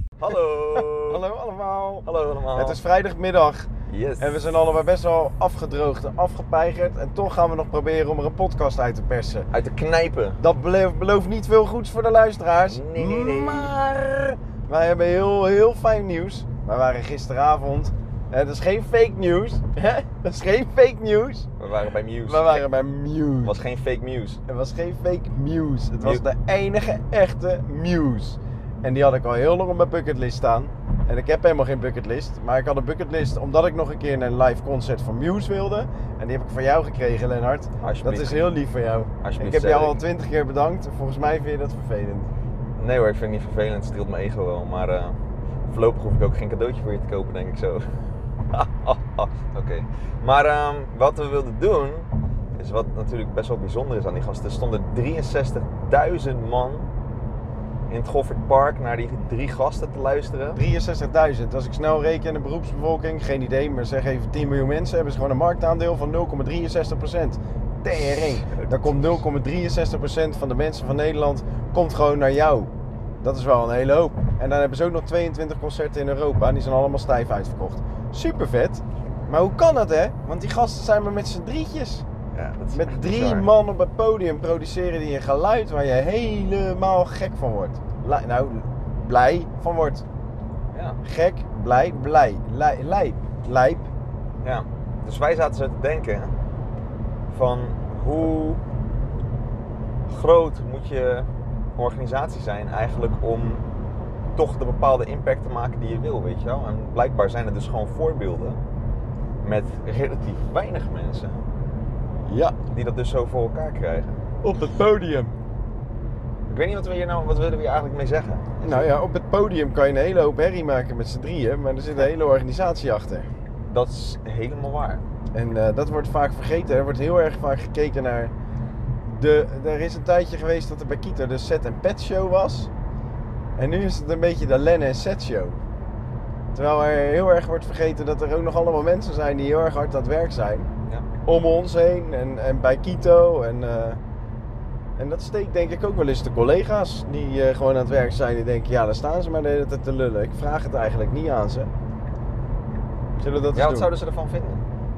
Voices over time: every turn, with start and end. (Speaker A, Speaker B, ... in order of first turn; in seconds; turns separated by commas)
Speaker A: 0.2-1.2, Speaker B: 0.7-3.7, Speaker A: 2.0-2.8, Speaker A: 3.9-4.5, Speaker B: 4.2-9.5, Speaker A: 9.5-10.4, Speaker B: 10.4-21.5, Speaker A: 12.7-13.8, Speaker A: 21.6-22.7, Speaker B: 22.2-23.6, Speaker A: 23.4-24.4, Speaker B: 24.5-42.3, Speaker A: 26.0-26.2, Speaker A: 37.8-38.5, Speaker A: 39.2-40.0, Speaker A: 42.8-47.8, Speaker A: 48.5-56.9, Speaker A: 57.9-60.6, Speaker B: 60.5-82.0, Speaker A: 67.9-69.2, Speaker A: 82.3-83.5, Speaker B: 82.7-90.0, Speaker A: 90.7-91.0, Speaker B: 91.0-93.9, Speaker A: 94.4-96.3, Speaker A: 97.3-98.6, Speaker A: 100.1-103.6, Speaker A: 104.4-108.6, Speaker A: 109.4-111.4, Speaker B: 112.2-112.6, Speaker A: 112.7-114.2, Speaker B: 114.4-115.3, Speaker A: 116.5-118.9, Speaker B: 118.6-123.3, Speaker A: 123.7-125.0, Speaker B: 125.3-128.3, Speaker B: 129.1-132.7, Speaker B: 133.6-135.6, Speaker B: 136.5-140.7, Speaker B: 141.2-144.0, Speaker B: 145.0-151.7, Speaker B: 153.2-153.9, Speaker A: 153.5-154.7